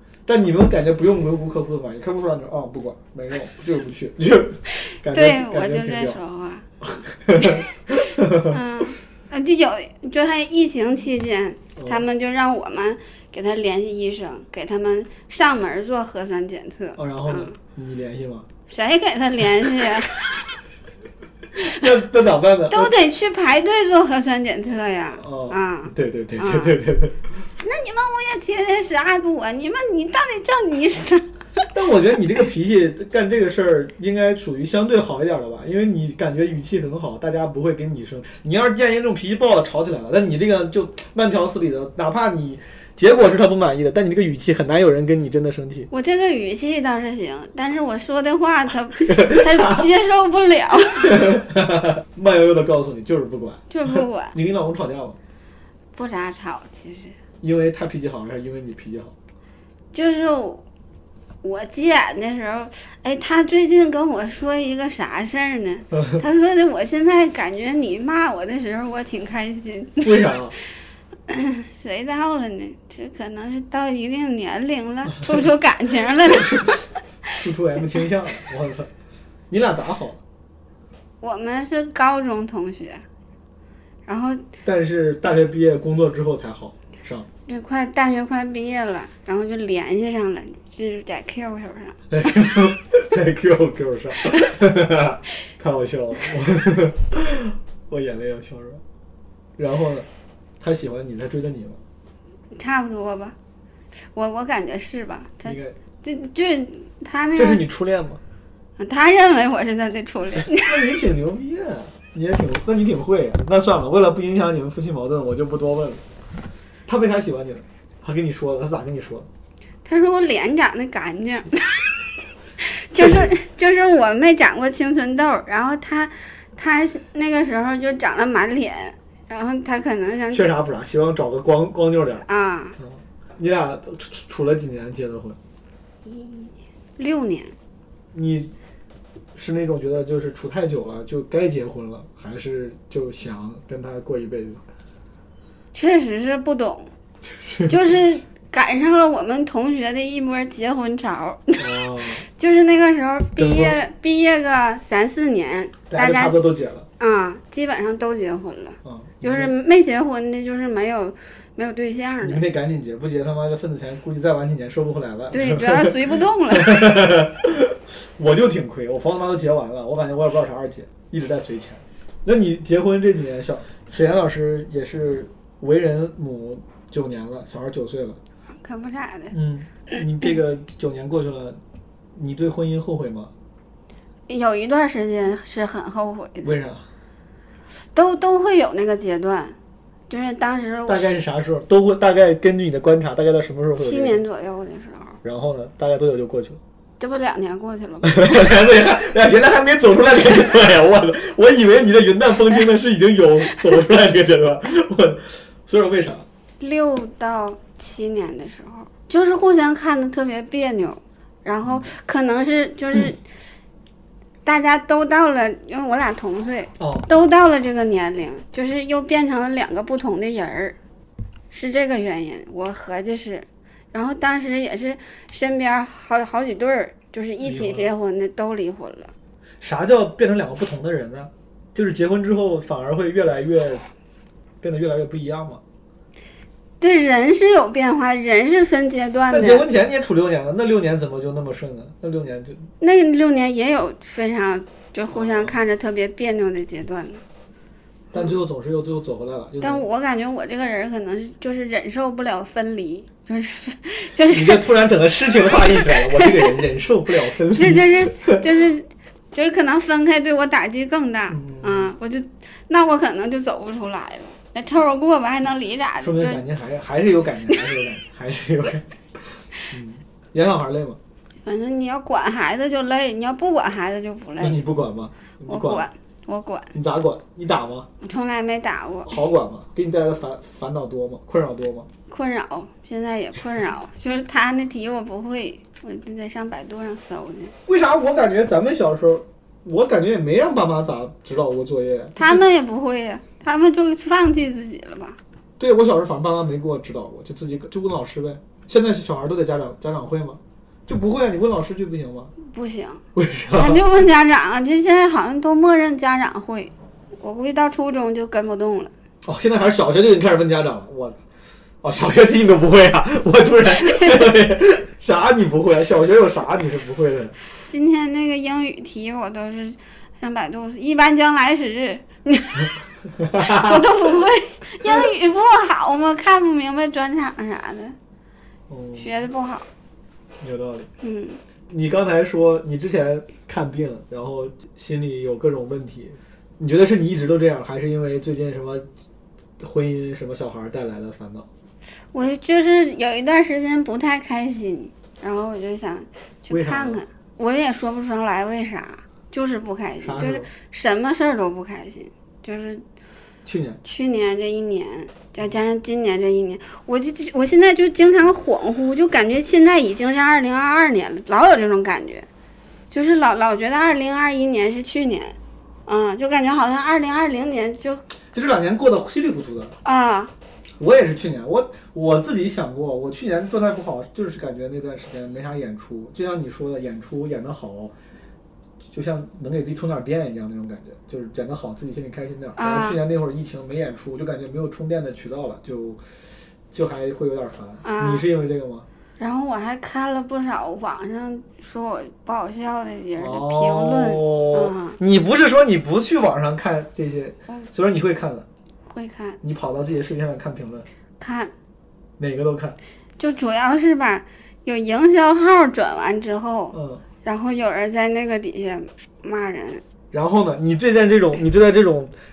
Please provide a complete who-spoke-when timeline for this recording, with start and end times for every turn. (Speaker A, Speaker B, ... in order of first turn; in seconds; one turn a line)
Speaker A: 0.2-6.2
Speaker B: 4.8-6.7
Speaker A: 6.8-8.6
Speaker B: 8.4-17.6
Speaker A: 11.8-12.0
Speaker A: 16.9-18.5
Speaker B: 18.7-20.5
Speaker A: 21.6-22.9
Speaker B: 22.7-26.7
Speaker A: 25.2-27.5
Speaker B: 27.6-31.7
Speaker A: 31.7-45.9
Speaker B: 45.9-51.3
Speaker A: 49.0-49.9
Speaker A: 51.0-55.2
Speaker B: 53.7-54.4
Speaker B: 55.9-57.1
Speaker A: 57.4-59.1
Speaker B: 59.9-60.6
Speaker B: 61.4-70.1
Speaker A: 70.0-70.5
Speaker B: 71.3-76.8
Speaker A: 76.2-76.8
Speaker A: 77.4-78.9
Speaker A: 79.5-80.2
Speaker B: 81.2-83.0
Speaker B: 84.1-84.4
Speaker A: 84.6-87.3
Speaker B: 87.5-92.0
Speaker A: 92.1-98.8
Speaker A: 99.6-100.1
Speaker A: 100.6-101.8
Speaker B: 102.5-103.3
Speaker B: 104.1-107.6
Speaker A: 105.4-105.8
Speaker A: 107.3-108.2
Speaker B: 108.8-110.8
Speaker A: 110.4-116.0
Speaker A: 116.9-119.3
Speaker B: 119.8-121.7
Speaker B: 122.6-130.5
Speaker A: 123.0-123.3
Speaker A: 130.3-132.3
Speaker B: 132.3-132.8
Speaker A: 132.8-135.4
Speaker B: 136.0-137.5
Speaker A: 138.1-138.5
Speaker A: 139.3-144.6
Speaker B: 145.7-146.9
Speaker A: 147.2-147.8
Speaker B: 147.7-151.6
Speaker A: 151.6-152.2
Speaker B: 152.3-156.4
Speaker A: 153.4-153.8
Speaker A: 155.9-156.9
Speaker B: 157.0-162.4
Speaker A: 158.8-159.5
Speaker A: 162.2-166.0
Speaker B: 165.3-166.9
Speaker A: 166.5-178.2
Speaker B: 178.6-179.3
Speaker A: 179.3-181.6
Speaker A: 182.1-183.3
Speaker B: 184.3-186.5
Speaker A: 186.4-186.9
Speaker B: 187.9-189.6
Speaker B: 190.1-191.1
Speaker A: 190.9-194.2
Speaker B: 193.8-195.2
Speaker A: 195.2-196.6
Speaker B: 197.0-198.4
Speaker A: 198.0-206.2
Speaker B: 206.6-213.2
Speaker B: 214.4-220.8
Speaker A: 216.8-217.1
Speaker B: 221.5-229.1
Speaker A: 227.4-227.9
Speaker A: 229.6-233.8
Speaker A: 234.6-235.6
Speaker B: 236.8-239.6
Speaker A: 239.3-242.7
Speaker B: 242.8-247.2
Speaker A: 245.1-245.6
Speaker A: 248.1-249.8
Speaker B: 249.6-254.6
Speaker A: 254.3-258.4
Speaker B: 255.5-256.5
Speaker B: 257.5-266.4
Speaker A: 261.3-261.9
Speaker A: 266.0-271.0
Speaker B: 271.4-274.6
Speaker A: 274.4-275.9
Speaker B: 275.5-276.7
Speaker A: 276.7-277.9
Speaker B: 278.0-279.1
Speaker A: 279.1-281.9
Speaker B: 282.1-287.5
Speaker A: 287.6-292.4
Speaker B: 292.1-295.2
Speaker A: 295.6-302.3
Speaker B: 302.4-308.9
Speaker A: 303.1-303.8
Speaker A: 309.2-311.2
Speaker A: 311.8-317.3
Speaker B: 317.7-322.7
Speaker A: 323.2-323.9
Speaker B: 323.3-327.9
Speaker A: 328.7-329.2
Speaker B: 329.0-329.6
Speaker A: 330.4-330.9
Speaker B: 331.0-331.4
Speaker A: 331.7-338.9
Speaker A: 339.6-341.4
Speaker B: 342.1-352.8
Speaker A: 346.5-347.0
Speaker A: 350.0-350.5
Speaker A: 353.4-353.8
Speaker B: 353.8-362.3
Speaker B: 362.9-368.0
Speaker A: 368.3-369.8
Speaker B: 369.8-370.3
Speaker A: 370.8-377.9
Speaker A: 378.9-386.0
Speaker B: 382.6-383.0
Speaker A: 386.7-388.9
Speaker B: 387.8-388.2
Speaker B: 389.2-395.0
Speaker A: 393.2-398.5
Speaker B: 398.9-399.4
Speaker A: 399.4-400.9
Speaker B: 401.2-401.5
Speaker A: 402.2-402.8
Speaker B: 403.2-409.8
Speaker A: 406.7-407.0
Speaker A: 410.1-412.1